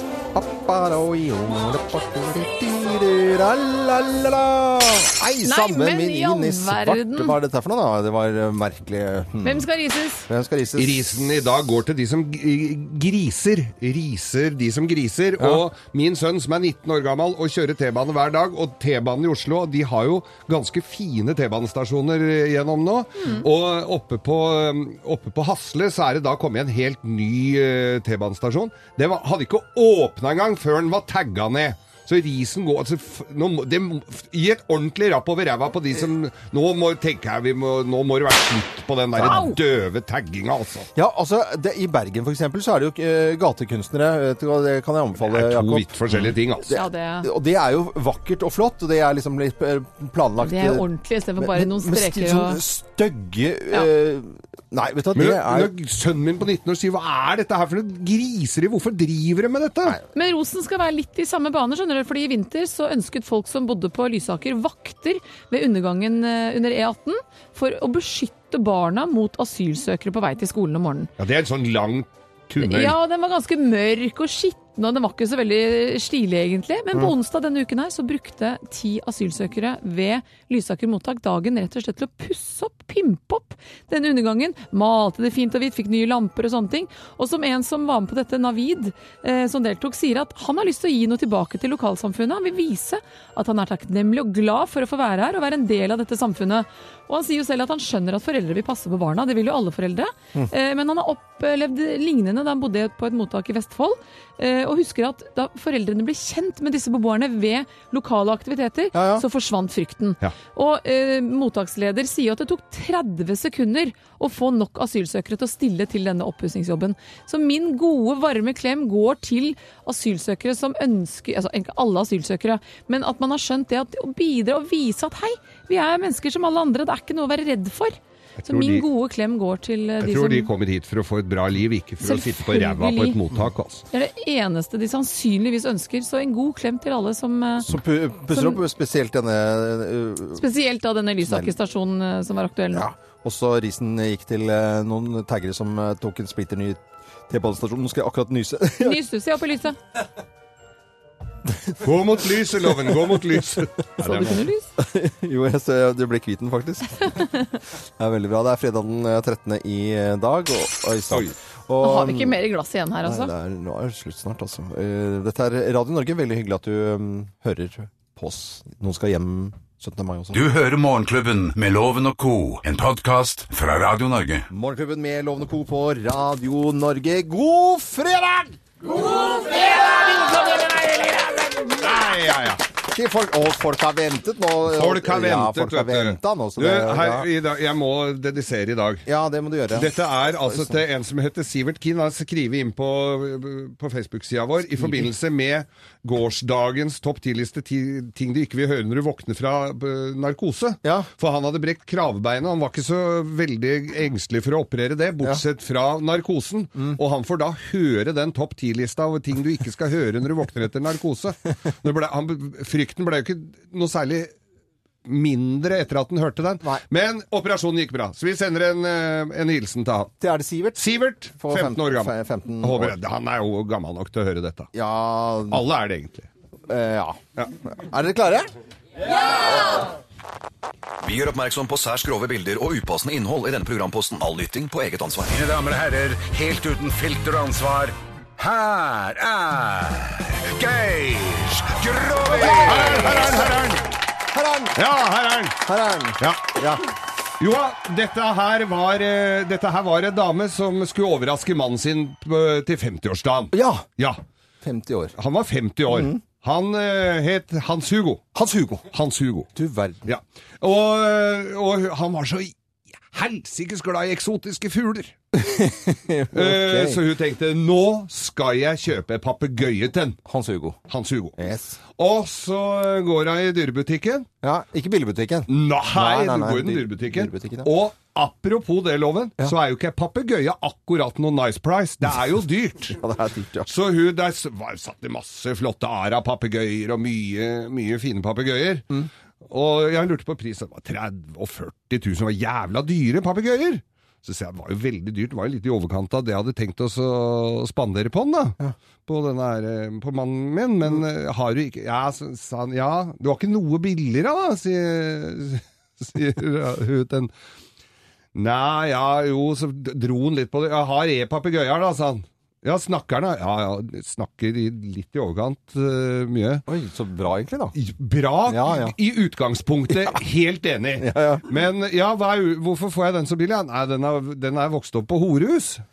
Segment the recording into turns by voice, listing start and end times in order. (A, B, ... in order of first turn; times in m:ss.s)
0:00.3-0:09.7 A
0:05.4-0:07.4 B
0:09.4-0:10.3 B
0:10.3-0:11.3 A
0:10.8-0:40.9 C
0:23.2-0:23.4 B
0:39.2-0:39.5 A
0:39.2-0:39.6 B
0:40.9-0:50.8 A
0:45.2-0:46.7 C
0:46.7-0:47.3 B
0:50.4-0:52.6 B
0:51.4-0:55.7 A
0:55.1-1:00.0 C
1:00.1-1:11.1 B
1:11.2-1:13.0 C
1:12.6-2:10.5 B
1:48.9-1:49.2 A
2:08.4-2:08.8 C
2:10.0-2:13.8 C
2:12.0-2:13.2 B
2:13.9-2:17.7 B
2:17.6-2:20.4 A
2:18.3-2:18.6 B
2:20.3-2:22.9 B
2:21.2-2:21.5 A
2:22.7-2:29.0 A
2:28.8-2:29.8 B
2:31.5-2:31.9 A
2:31.8-2:34.4 C
2:32.7-2:37.3 A
2:34.0-2:34.7 B
2:38.0-2:42.4 A
2:41.8-2:43.3 B
2:43.0-2:50.4 A
2:50.3-2:54.5 D
2:54.5-2:58.6 A
3:01.7-3:02.6 C
3:02.8-3:07.3 A
3:04.7-3:09.1 C
3:09.0-3:10.8 A
3:09.7-3:34.3 C
3:14.8-3:15.1 A
3:20.8-3:21.1 A
3:35.0-3:40.1 C
3:40.2-3:43.0 A
3:40.8-3:44.7 C
3:44.7-3:45.6 A
3:45.5-3:46.3 C
3:46.7-3:48.5 A
3:49.4-3:49.8 A
3:51.0-3:55.3 E
3:55.2-4:03.1 D
4:02.4-4:03.5 A
4:02.4-4:03.8 C
4:04.3-4:04.8 A
4:04.7-4:05.6 C
4:05.6-4:06.8 A
4:06.2-4:06.5 C
4:07.4-4:14.2 C
4:13.5-4:13.9 A
4:14.6-4:15.1 A
4:15.2-4:18.2 C
4:15.9-4:16.2 A
4:18.3-4:18.9 A
4:18.9-4:19.5 C
4:19.5-4:20.0 A
4:20.0-4:22.5 C
4:23.1-4:25.1 C
4:25.4-4:27.0 A
4:26.3-4:30.2 C
4:30.2-4:30.8 A
4:30.9-4:31.4 C
4:31.4-4:31.8 A
4:32.0-4:34.3 C
4:34.4-4:37.7 A
4:35.5-4:43.0 C
4:43.0-4:43.7 A
4:43.6-4:48.9 C
4:49.5-5:07.3 C
5:08.3-5:16.6 C
5:16.7-5:17.7 A
5:17.7-5:25.8 C
5:18.5-5:18.9 A
5:21.0-5:21.4 A